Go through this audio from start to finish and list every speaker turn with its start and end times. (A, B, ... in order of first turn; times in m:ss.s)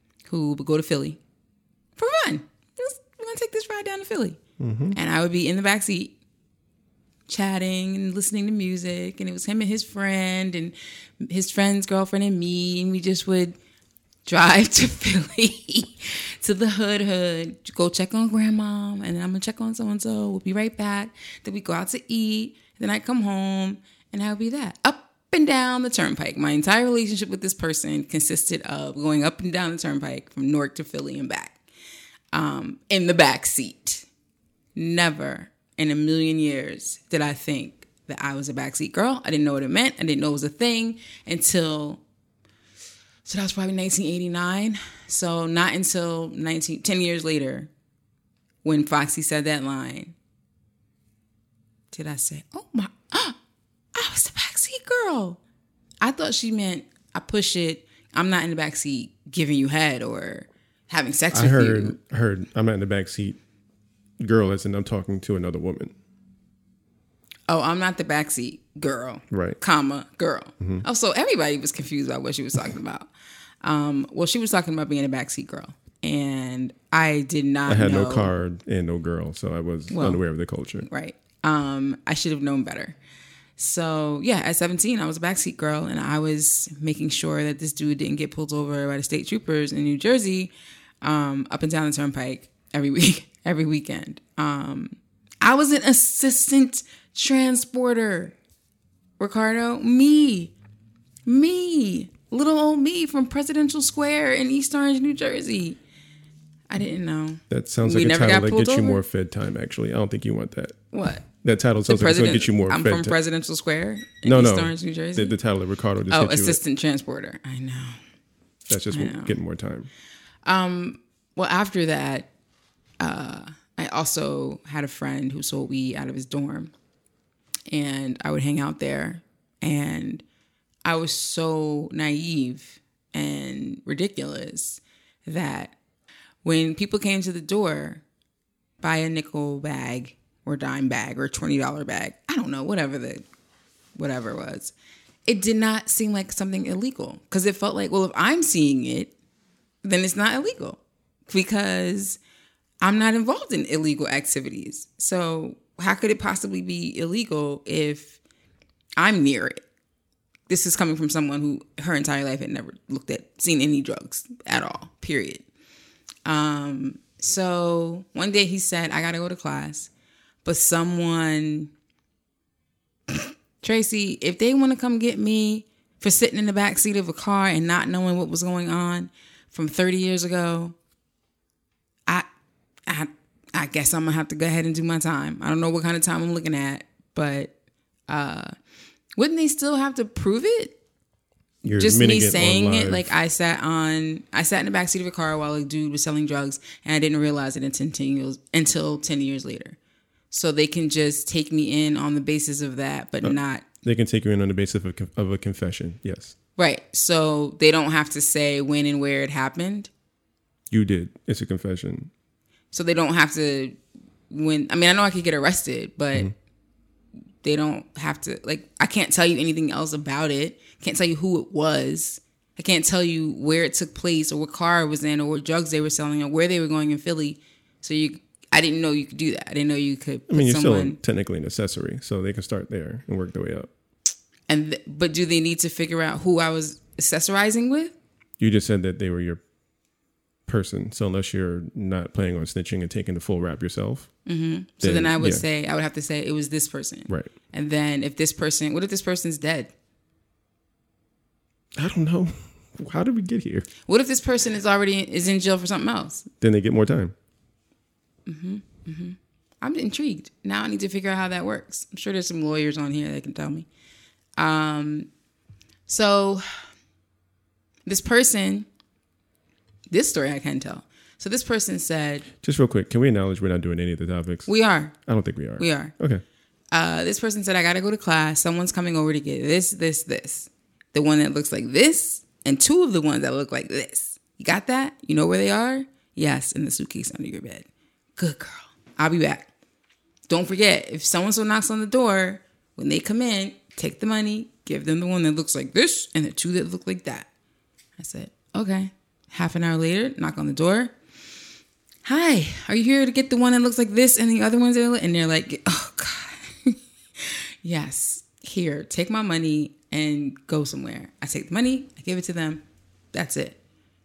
0:00.3-0:01.2 A
0:02.0-0:04.4 A
0:04.6-0:05.0 B
0:04.9-0:06.2 A
0:07.3-0:13.6 A
0:14.2-0:31.6 A
0:32.3-0:34.1 A
0:34.8-0:42.0 A
0:43.2-0:47.7 A
0:48.6-0:50.2 A
0:51.9-0:53.4 A
0:53.9-0:55.4 A
0:56.0-1:02.0 A
1:01.3-1:03.4 B
1:04.2-1:05.9 B
1:07.5-1:13.1 A
1:09.3-1:09.6 B
1:13.6-1:18.3 A
1:17.7-1:20.9 B
1:19.9-1:20.2 A
1:20.8-1:23.0 A
1:23.6-1:38.3 A
1:39.2-1:40.5 A
1:41.2-1:45.8 A
1:46.7-1:49.0 A
1:47.5-1:53.2 B
1:50.9-1:51.2 A
1:51.8-1:55.4 A
1:54.2-1:56.6 B
1:56.1-1:58.0 A
1:58.7-1:59.9 B
1:58.9-1:59.4 A
2:00.4-2:02.3 A
2:03.0-2:06.7 A
2:07.7-2:10.2 A
2:10.8-2:15.8 A
2:16.4-2:18.0 A
2:18.8-2:23.2 A
2:24.0-2:24.7 A
2:25.3-2:29.1 A
2:29.8-2:32.2 A
2:32.8-2:38.2 A
2:39.0-2:39.6 A
2:40.5-2:45.4 A
2:46.2-2:49.9 A
2:50.4-2:51.7 A
2:53.1-3:00.8 A
3:02.9-3:07.5 A
3:08.1-3:08.5 A
3:09.2-3:10.8 A
3:11.6-3:13.1 B
3:11.7-3:19.8 A
3:20.3-3:23.6 A
3:23.2-3:26.3 B
3:26.6-3:29.9 A
3:30.7-3:32.1 B
3:32.7-3:33.8 A
3:34.3-3:36.3 A
3:37.4-3:51.0 A
3:50.3-3:53.7 B
3:54.5-3:58.0 A
3:58.4-3:59.4 B
4:00.4-4:04.2 B
4:04.2-4:09.7 A
4:04.8-4:05.4 B
4:11.8-4:13.7 B
4:13.9-4:16.3 A
4:16.4-4:17.1 B
4:18.2-4:23.7 A
4:24.4-4:25.1 A
4:25.9-4:26.6 A
4:27.8-4:28.7 A
4:29.9-4:32.3 A
4:32.4-4:36.2 B
4:34.5-4:36.0 A
4:36.7-4:49.5 A
4:50.3-4:57.3 A
4:58.0-5:00.9 A
5:02.0-5:12.6 A
5:13.1-5:13.6 A